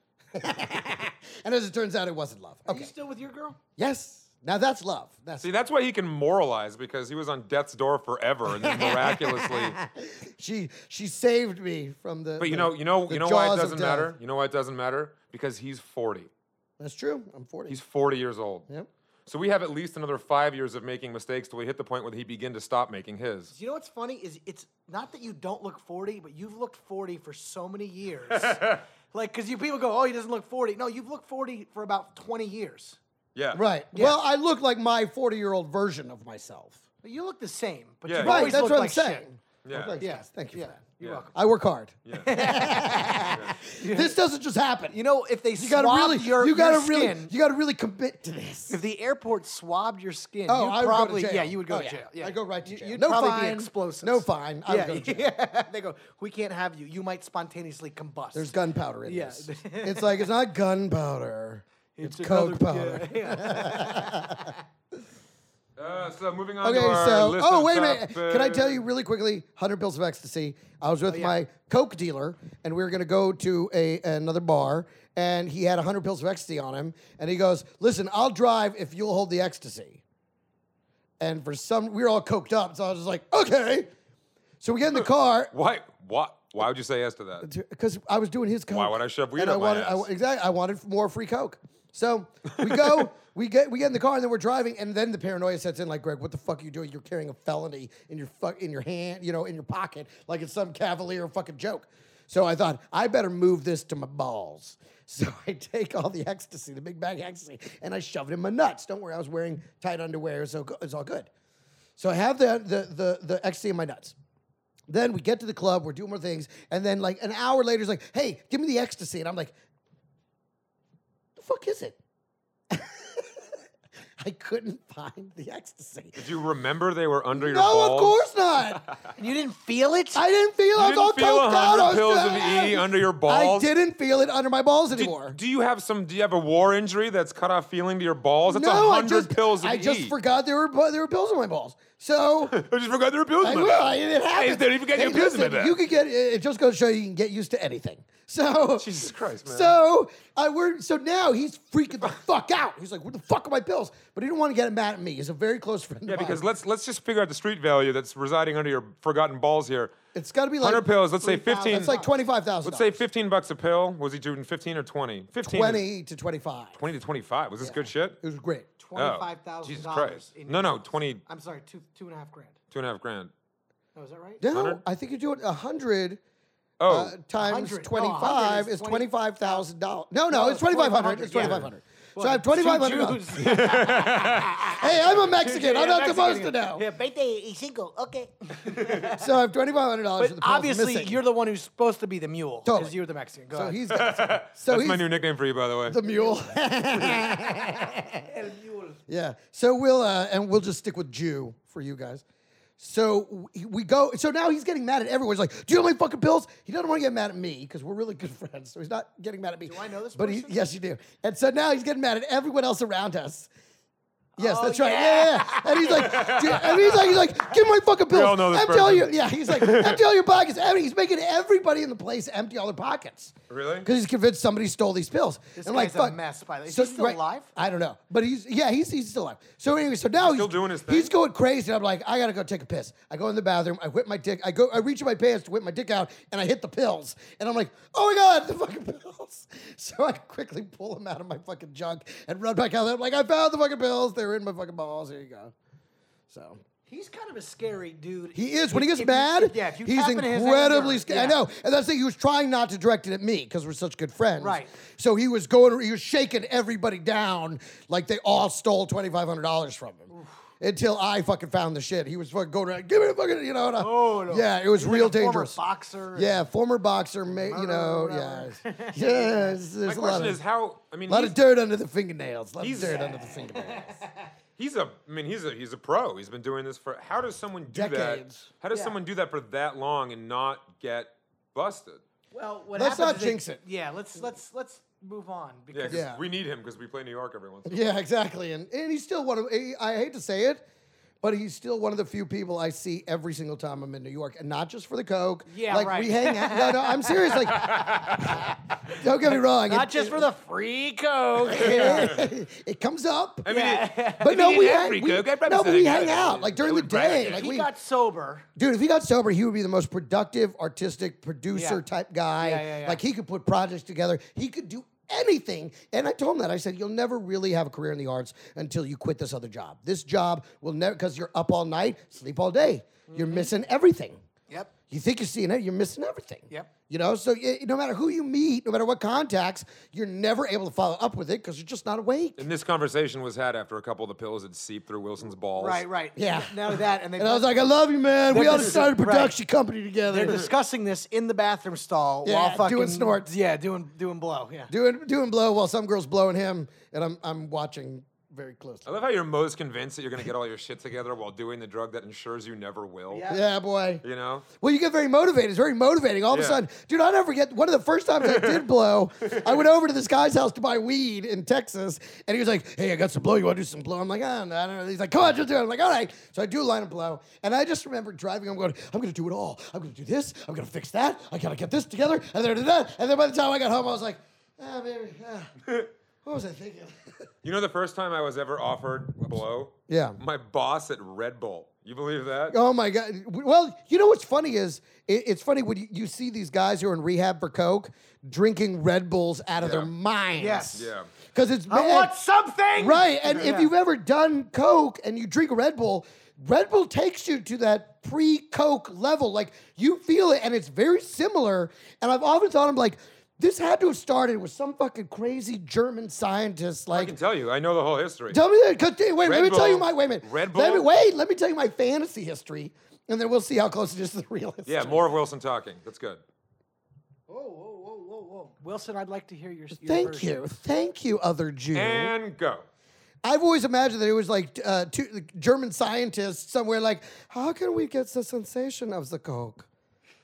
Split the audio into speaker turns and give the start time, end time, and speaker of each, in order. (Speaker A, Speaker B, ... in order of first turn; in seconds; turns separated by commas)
Speaker A: 0.3-2.9, Speaker B: 2.7-3.6, Speaker A: 3.8-5.5, Speaker C: 5.4-9.8, Speaker A: 8.5-14.2, Speaker C: 12.4-16.3, Speaker A: 16.8-17.8, Speaker C: 17.7-18.7, Speaker C: 19.2-23.5, Speaker B: 23.5-33.0, Speaker C: 28.3-28.8, Speaker C: 33.3-33.6, Speaker A: 33.5-36.8, Speaker B: 37.0-39.2, Speaker C: 38.1-38.6, Speaker A: 38.2-40.7, Speaker C: 39.6-40.0, Speaker B: 40.0-41.3, Speaker C: 41.0-41.3, Speaker A: 41.3-45.0, Speaker C: 42.0-42.5, Speaker B: 42.2-44.2, Speaker C: 43.3-43.6, Speaker B: 44.9-47.3, Speaker A: 45.6-48.8, Speaker B: 48.7-58.5, Speaker A: 50.5-55.3, Speaker A: 58.3-64.5, Speaker B: 59.0-60.2, Speaker B: 62.0-64.6, Speaker C: 65.8-68.8, Speaker A: 66.6-80.0, Speaker B: 71.1-71.3, Speaker A: 81.2-83.9, Speaker A: 84.6-85.5, Speaker C: 85.5-87.5, Speaker A: 87.4-111.3, Speaker C: 88.7-90.1, Speaker A: 112.0-114.2, Speaker A: 114.9-119.5, Speaker A: 121.3-122.0, Speaker A: 122.7-123.4, Speaker A: 124.2-126.2, Speaker C: 126.2-128.2, Speaker A: 127.3-128.8, Speaker B: 129.2-130.2, Speaker A: 130.1-135.4, Speaker C: 130.7-133.7, Speaker C: 134.9-140.1, Speaker A: 138.4-142.6, Speaker C: 142.5-145.8, Speaker A: 143.4-156.4, Speaker C: 148.8-149.8, Speaker C: 156.1-159.9, Speaker A: 160.1-163.0, Speaker C: 160.6-161.9, Speaker B: 161.7-162.1, Speaker C: 162.6-165.8, Speaker A: 165.4-166.8, Speaker C: 166.7-168.2, Speaker A: 167.6-168.7, Speaker B: 168.8-172.6, Speaker C: 168.9-171.2, Speaker C: 172.7-173.3, Speaker B: 173.9-174.4, Speaker A: 174.4-176.2, Speaker C: 174.5-174.8, Speaker C: 176.8-177.1, Speaker A: 176.9-183.6, Speaker B: 177.4-179.6, Speaker B: 180.3-189.3, Speaker C: 183.4-184.7, Speaker A: 184.7-186.8, Speaker A: 189.1-191.2, Speaker B: 190.2-193.8, Speaker A: 192.7-192.9, Speaker A: 193.5-195.1, Speaker C: 193.9-196.0, Speaker A: 195.8-198.3, Speaker B: 196.1-196.4, Speaker B: 198.3-199.0, Speaker A: 199.1-202.2, Speaker A: 202.8-213.5, Speaker B: 209.7-210.6, Speaker B: 214.4-217.0, Speaker A: 214.4-226.2, Speaker C: 216.1-216.6, Speaker C: 218.1-220.0, Speaker C: 223.5-223.9, Speaker B: 225.6-227.5, Speaker A: 226.7-245.5, Speaker C: 230.2-231.1, Speaker A: 246.3-246.6, Speaker B: 246.9-251.4, Speaker A: 248.3-260.1, Speaker B: 254.4-254.7, Speaker A: 260.6-265.6, Speaker B: 263.8-266.4, Speaker A: 266.1-270.4, Speaker B: 267.4-269.6, Speaker C: 269.8-271.4, Speaker A: 271.1-274.0, Speaker C: 272.6-273.0, Speaker B: 272.8-274.2, Speaker C: 274.6-282.0, Speaker A: 277.7-278.5, Speaker B: 278.7-279.0, Speaker B: 282.3-286.1, Speaker A: 282.7-283.6, Speaker C: 285.7-287.9, Speaker A: 285.9-286.2, Speaker A: 287.6-290.6, Speaker A: 291.2-300.3, Speaker B: 295.5-302.1, Speaker C: 297.6-298.0, Speaker A: 301.4-303.4, Speaker C: 301.6-302.2, Speaker C: 303.4-307.5, Speaker B: 303.5-304.4, Speaker A: 304.1-307.7, Speaker B: 307.2-308.4, Speaker A: 308.6-324.2, Speaker B: 311.5-311.8, Speaker B: 312.4-313.0, Speaker B: 323.1-323.5, Speaker A: 324.9-332.4, Speaker C: 332.4-335.9, Speaker B: 335.6-337.5, Speaker A: 336.1-340.5, Speaker B: 338.3-339.3, Speaker B: 340.1-344.7, Speaker A: 342.2-343.3, Speaker A: 344.7-348.9, Speaker C: 348.9-353.2, Speaker B: 353.1-353.4, Speaker A: 353.3-354.0, Speaker C: 354.0-354.4, Speaker A: 354.6-375.5, Speaker C: 356.3-356.6, Speaker C: 358.2-358.6, Speaker C: 359.2-359.5, Speaker A: 376.2-377.1, Speaker C: 377.4-382.6, Speaker A: 379.9-380.2, Speaker A: 382.5-392.1, Speaker C: 389.6-389.9, Speaker B: 390.4-390.8, Speaker C: 390.7-391.1, Speaker B: 391.7-393.7, Speaker A: 392.8-407.1, Speaker C: 406.9-408.4, Speaker A: 408.3-415.0, Speaker C: 409.2-410.9, Speaker C: 414.6-416.2, Speaker B: 417.3-420.5, Speaker A: 419.8-422.1, Speaker C: 421.7-422.6, Speaker A: 423.2-429.7